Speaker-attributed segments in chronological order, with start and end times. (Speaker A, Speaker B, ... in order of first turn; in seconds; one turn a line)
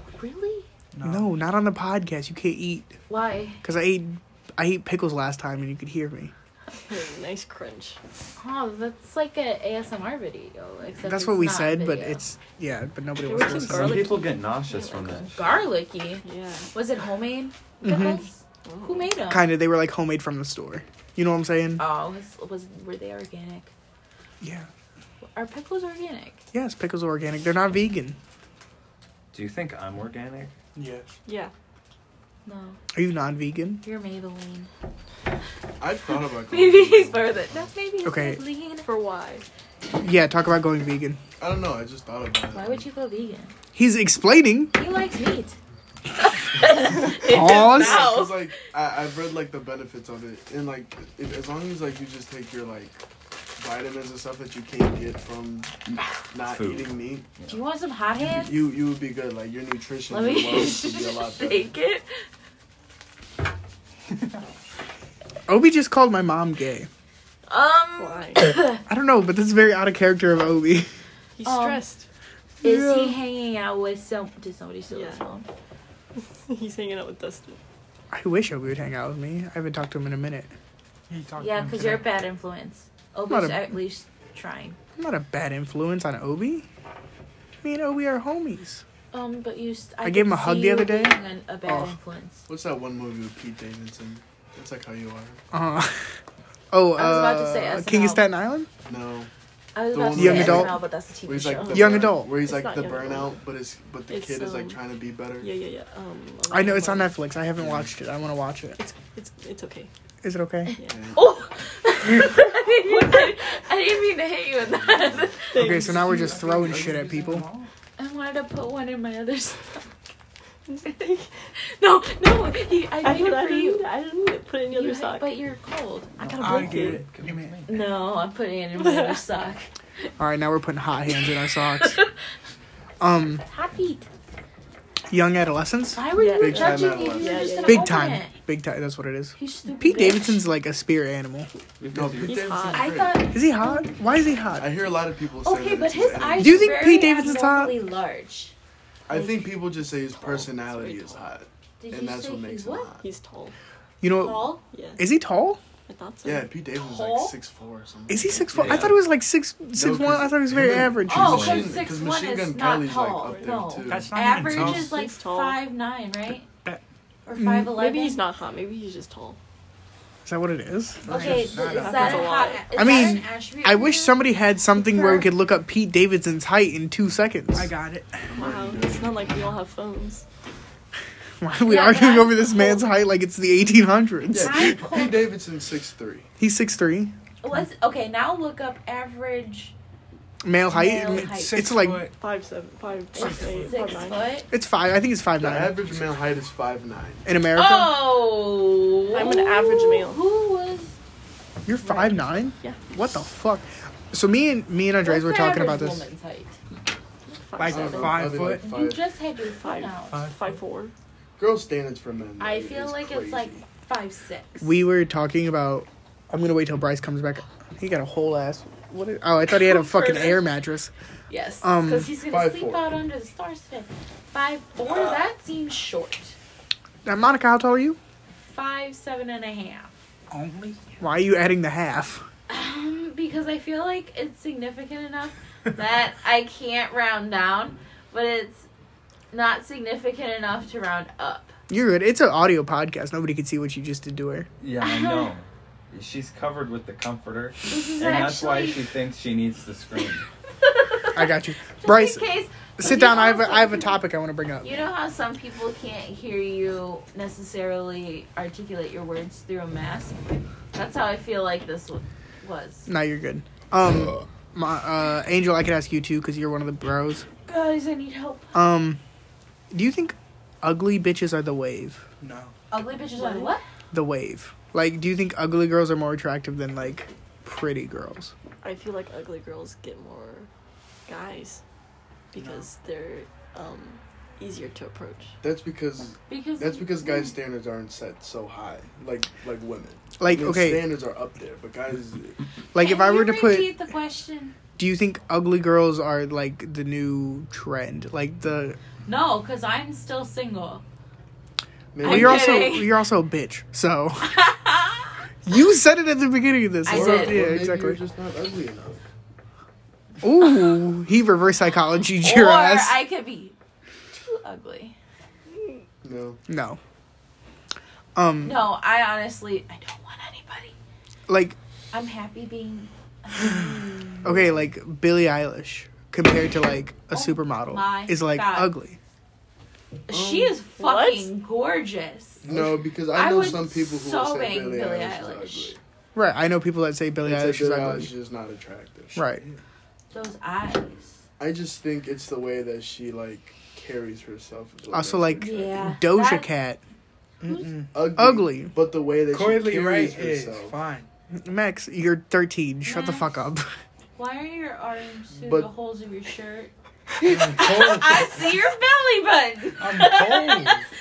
Speaker A: 0.2-0.7
Speaker B: 0.9-1.3
Speaker C: 1.0-3.0
Speaker A: 3.1-3.6
Speaker C: 3.6-6.3
Speaker D: 6.9-8.0
Speaker A: 8.4-12.2
Speaker C: 11.0-14.1
Speaker D: 13.2-15.3
Speaker E: 13.5-15.5
Speaker A: 15.3-19.5
Speaker D: 16.2-16.7
Speaker C: 17.8-18.2
Speaker D: 18.6-19.1
Speaker C: 19.3-21.8
Speaker A: 21.8-23.7
Speaker C: 24.4-24.7
Speaker A: 25.3-26.4
Speaker C: 26.5-28.2
Speaker E: 29.3-30.5
Speaker B: 30.7-31.1
Speaker D: 31.2-31.5
Speaker A: 32.4-32.8
Speaker C: 32.9-33.8
Speaker A: 33.8-34.7
Speaker F: 35.8-37.7
Speaker A: 36.5-38.9
Speaker C: 38.0-38.4
Speaker D: 38.8-39.4
Speaker C: 40.0-41.2
Speaker F: 41.4-42.9
Speaker A: 42.5-43.5
Speaker C: 43.7-44.7
Speaker A: 44.7-45.6
Speaker A: 46.2-48.5
Speaker C: 47.1-48.2
Speaker F: 47.2-53.0
Speaker F: 53.5-57.3
Speaker E: 56.4-57.6
Speaker A: 57.5-58.7
Speaker F: 58.3-61.7
Speaker A: 60.1-62.2
Speaker C: 65.5-66.9
Speaker A: 67.5-68.8
Speaker D: 68.0-68.4
Speaker C: 68.9-70.9
Speaker D: 71.3-72.1
Speaker A: 71.4-71.8
Speaker A: 72.6-75.5
Speaker C: 72.6-73.1
Speaker D: 74.9-75.2
Speaker D: 76.2-77.6
Speaker C: 78.1-80.5
Speaker B: 81.1-82.1
Speaker A: 81.4-84.8
Speaker C: 83.3-83.8
Speaker C: 85.0-86.6
Speaker C: 87.6-88.8
Speaker A: 89.1-92.4
Speaker C: 90.0-91.9
Speaker F: 92.5-95.4
Speaker C: 95.5-96.1
Speaker C: 96.7-98.7
Speaker A: 97.0-98.3
Speaker F: 98.9-99.3
Speaker A: 99.7-102.0
Speaker F: 99.9-105.5
Speaker C: 100.1-100.8
Speaker C: 101.7-102.3
Speaker D: 102.2-103.3
Speaker D: 104.1-104.8
Speaker D: 105.4-107.2
Speaker C: 106.5-108.8
Speaker F: 107.5-107.9
Speaker D: 108.8-109.9
Speaker C: 110.2-110.7
Speaker D: 110.8-111.0
Speaker F: 110.9-111.2
Speaker A: 111.1-115.6
Speaker D: 115.5-116.3
Speaker C: 115.5-117.5
Speaker B: 115.6-117.7
Speaker A: 118.0-119.9
Speaker D: 120.7-121.3
Speaker A: 121.6-123.8
Speaker D: 123.0-125.3
Speaker A: 124.7-127.0
Speaker E: 126.2-127.9
Speaker B: 126.4-127.6
Speaker D: 126.4-127.0
Speaker A: 127.7-129.7
Speaker D: 128.8-129.2
Speaker C: 130.2-132.0
Speaker A: 131.8-132.1
Speaker C: 133.0-133.4
Speaker A: 133.4-134.1
Speaker C: 135.1-136.0
Speaker A: 135.9-138.3
Speaker D: 136.1-138.0
Speaker F: 136.3-137.6
Speaker C: 137.7-141.5
Speaker A: 139.3-140.4
Speaker E: 141.8-142.6
Speaker F: 141.9-143.2
Speaker D: 142.2-142.9
Speaker A: 142.7-143.9
Speaker C: 143.3-144.8
Speaker F: 144.6-146.9
Speaker A: 145.4-148.5
Speaker C: 146.4-147.7
Speaker F: 149.1-153.0
Speaker D: 149.1-149.4
Speaker D: 150.1-151.3
Speaker A: 151.8-152.9
Speaker D: 153.0-153.5
Speaker C: 154.0-155.6
Speaker A: 154.2-154.6
Speaker D: 154.7-155.0
Speaker D: 155.9-156.5
Speaker F: 156.2-158.9
Speaker A: 156.7-157.3
Speaker C: 158.1-161.7
Speaker E: 158.5-159.0
Speaker F: 159.7-164.2
Speaker A: 161.1-166.4
Speaker E: 161.1-161.7
Speaker B: 163.8-165.0
Speaker D: 164.5-165.6
Speaker A: 167.2-168.2
Speaker C: 167.3-167.7
Speaker D: 167.7-169.4
Speaker C: 170.2-171.3
Speaker F: 171.1-172.0
Speaker B: 171.1-172.4
Speaker A: 171.1-174.2
Speaker D: 171.6-172.6
Speaker C: 172.8-177.7
Speaker A: 174.8-175.3
Speaker B: 177.5-178.3
Speaker F: 178.3-179.5
Speaker D: 178.3-180.2
Speaker C: 181.4-184.9
Speaker A: 181.6-182.8
Speaker F: 184.3-186.3
Speaker A: 184.4-185.2
Speaker C: 186.4-187.1
Speaker A: 187.4-189.7
Speaker C: 190.4-192.1
Speaker A: 190.7-191.8
Speaker B: 191.1-192.2
Speaker D: 192.2-194.3
Speaker A: 193.1-194.5
Speaker B: 193.1-193.8
Speaker C: 194.5-195.8
Speaker F: 195.4-197.2
Speaker C: 197.2-198.0
Speaker A: 197.6-200.9
Speaker D: 199.1-200.2
Speaker C: 201.7-206.0
Speaker D: 201.8-202.8
Speaker A: 205.0-206.6
Speaker D: 207.3-208.4
Speaker B: 207.6-208.6
Speaker F: 207.7-209.0
Speaker A: 208.4-210.2
Speaker D: 209.6-210.9
Speaker B: 210.1-210.6
Speaker F: 211.4-213.6
Speaker A: 212.4-214.7
Speaker C: 214.6-220.9
Speaker A: 219.6-220.4
Speaker A: 221.3-226.3
Speaker C: 221.6-222.1
Speaker F: 222.2-222.9
Speaker C: 227.0-228.0
Speaker A: 228.4-229.9
Speaker B: 230.3-231.0
Speaker C: 231.0-232.2
Speaker A: 232.5-238.7
Speaker A: 239.3-241.6
Speaker C: 241.7-244.5
Speaker E: 244.6-250.2
Speaker A: 244.8-245.3
Speaker A: 247.7-248.9
Speaker A: 250.6-254.0
Speaker C: 251.1-254.8
Speaker A: 254.6-260.2
Speaker A: 260.7-262.9
Speaker C: 262.9-267.2
Speaker A: 267.4-268.5
Speaker C: 268.5-269.0
Speaker C: 269.7-272.0
Speaker B: 272.2-272.5
Speaker A: 272.7-273.6
Speaker D: 273.1-273.5
Speaker C: 273.9-278.3
Speaker D: 278.6-280.5
Speaker D: 281.1-281.6
Speaker D: 282.3-285.4
Speaker B: 282.4-282.7
Speaker F: 285.4-292.4
Speaker A: 286.3-287.3
Speaker C: 290.2-290.8
Speaker C: 292.7-293.7
Speaker A: 292.8-294.5
Speaker C: 294.8-298.8
Speaker A: 299.1-300.8
Speaker F: 301.9-302.7
Speaker A: 302.0-302.9
Speaker C: 302.0-304.3
Speaker A: 304.2-305.2
Speaker C: 305.4-308.0
Speaker A: 306.9-307.4
Speaker F: 306.9-309.0
Speaker C: 310.2-313.0
Speaker A: 312.2-313.5
Speaker A: 314.1-314.9
Speaker F: 316.0-316.4
Speaker C: 316.5-316.8
Speaker C: 318.1-318.6
Speaker A: 318.4-320.7
Speaker C: 321.3-321.6
Speaker A: 321.9-324.2
Speaker F: 324.2-324.6
Speaker C: 324.2-329.0
Speaker A: 327.1-328.7
Speaker A: 330.1-335.7
Speaker F: 330.1-330.6
Speaker D: 330.8-331.3
Speaker F: 332.4-335.8
Speaker C: 336.1-338.1
Speaker F: 337.2-339.2
Speaker C: 339.1-339.4
Speaker A: 340.1-341.2
Speaker F: 341.4-345.8
Speaker C: 344.9-346.8
Speaker A: 345.4-346.5
Speaker B: 347.4-348.1
Speaker A: 347.4-347.7
Speaker F: 347.9-350.8
Speaker C: 348.1-348.7
Speaker B: 349.3-351.1
Speaker C: 351.3-353.7
Speaker A: 352.8-353.3
Speaker A: 354.2-360.9
Speaker F: 355.3-355.7
Speaker B: 357.2-358.5
Speaker B: 359.8-360.8